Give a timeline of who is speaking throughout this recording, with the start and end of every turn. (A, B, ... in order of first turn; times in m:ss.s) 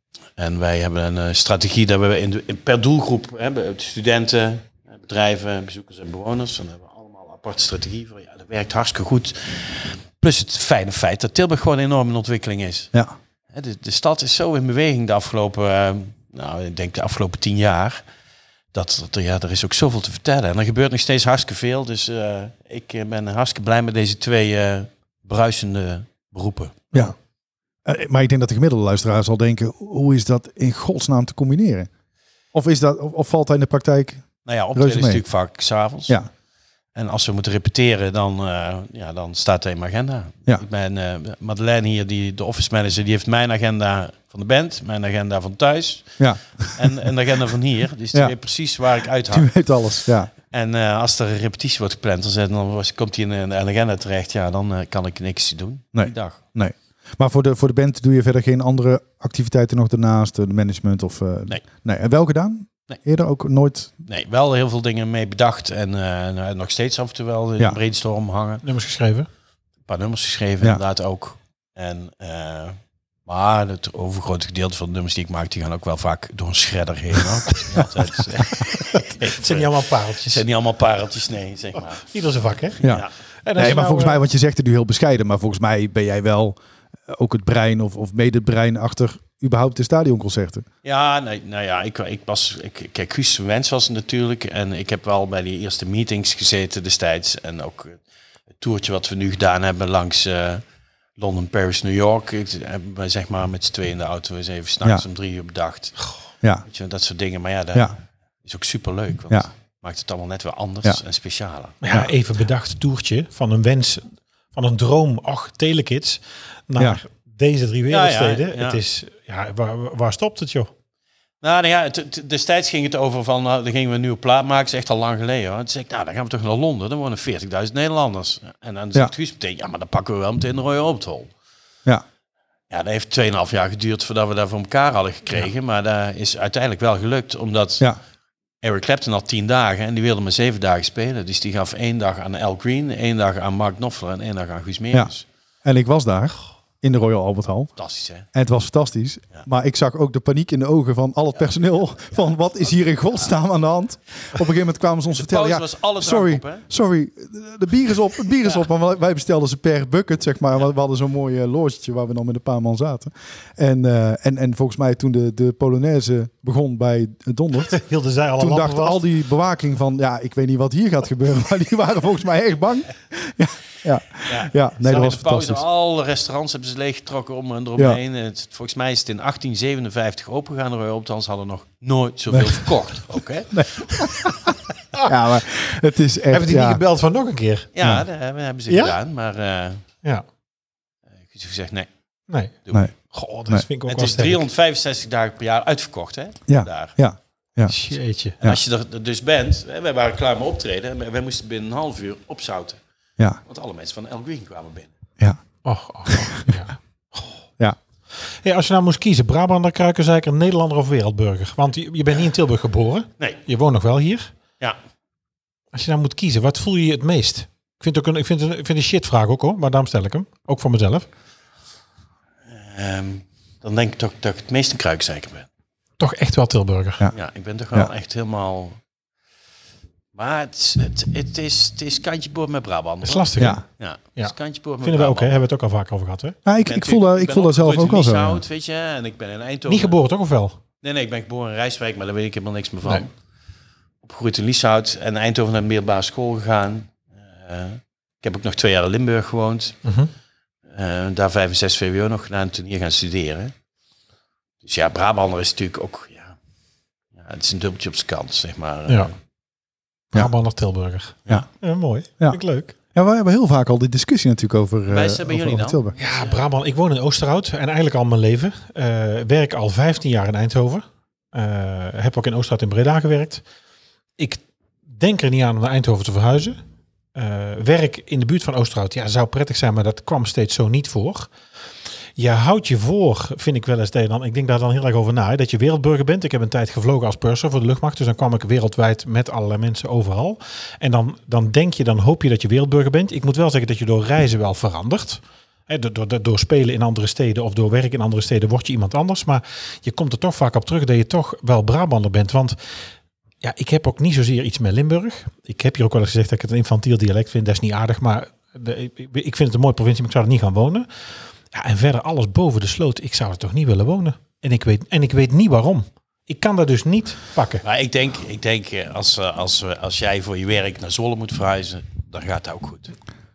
0:00.4-0:12.9 A
0:13.5-0:18.0 A
0:18.7-0:26.9 A
0:27.8-0:31.9 B
0:32.5-0:35.2 B
0:34.4-0:36.2 A
0:36.9-0:49.5 A
0:46.2-0:46.9 B
0:49.3-0:50.3 B
0:50.0-0:56.4 A
0:55.9-1:03.9 B
1:04.0-1:08.6 A
1:08.6-1:09.3 C
1:09.9-1:19.7 A
1:18.7-1:20.4 C
1:20.2-1:22.0 A
1:21.9-1:22.8 C
1:22.8-1:23.1 A
1:23.4-1:24.2 C
1:23.6-1:26.6 B
1:27.1-1:30.6 B
1:30.8-1:38.0 A
1:38.6-1:40.6 A
1:41.2-1:46.1 A
1:46.7-1:51.8 A
1:51.8-2:00.7 C
1:57.9-1:58.8 A
2:01.4-2:11.3 A
2:12.7-2:17.9 A
2:18.6-2:25.2 A
2:25.6-2:27.7 B
2:27.8-2:28.2 A
2:28.3-2:47.7 B
2:33.0-2:33.3 A
2:35.1-2:36.6 A
2:47.6-2:49.0 C
2:48.4-2:55.6 B
2:54.3-3:04.1 A
3:02.3-3:02.6 B
3:03.5-3:06.8 B
3:06.3-3:07.7 C
3:07.7-3:09.8 A
3:08.7-3:08.9 C
3:11.2-3:11.9 A
3:12.3-3:12.5 C
3:13.1-3:14.4 C
3:13.9-3:17.0 A
3:16.5-3:17.7 B
3:17.6-3:18.4 C
3:18.4-3:22.8 A
3:23.4-3:24.9 A
3:25.6-3:27.4 C
3:26.0-3:26.4 B
3:28.3-3:34.3 C
3:35.7-3:41.1 C
3:42.5-3:45.5 A
3:46.0-3:47.0 C
3:47.1-3:48.8 A
3:50.1-3:55.4 A
3:53.0-3:53.6 C
3:54.2-3:56.4 C
3:56.4-3:58.4 B
3:56.6-4:00.0 A
3:59.7-4:00.6 C
4:00.8-4:03.1 A
4:04.0-4:09.8 A
4:09.8-4:10.1 C
4:10.7-4:13.5 A
4:14.6-4:16.4 A
4:17.1-4:19.1 A
4:20.1-4:22.7 C
4:22.9-4:25.9 B
4:24.9-4:26.4 A
4:26.0-4:33.4 C
4:34.2-4:36.6 C
4:37.1-4:41.3 C
4:42.2-5:02.6 C
5:03.4-5:10.9 C
5:11.5-5:17.6 C
5:17.6-5:22.9 A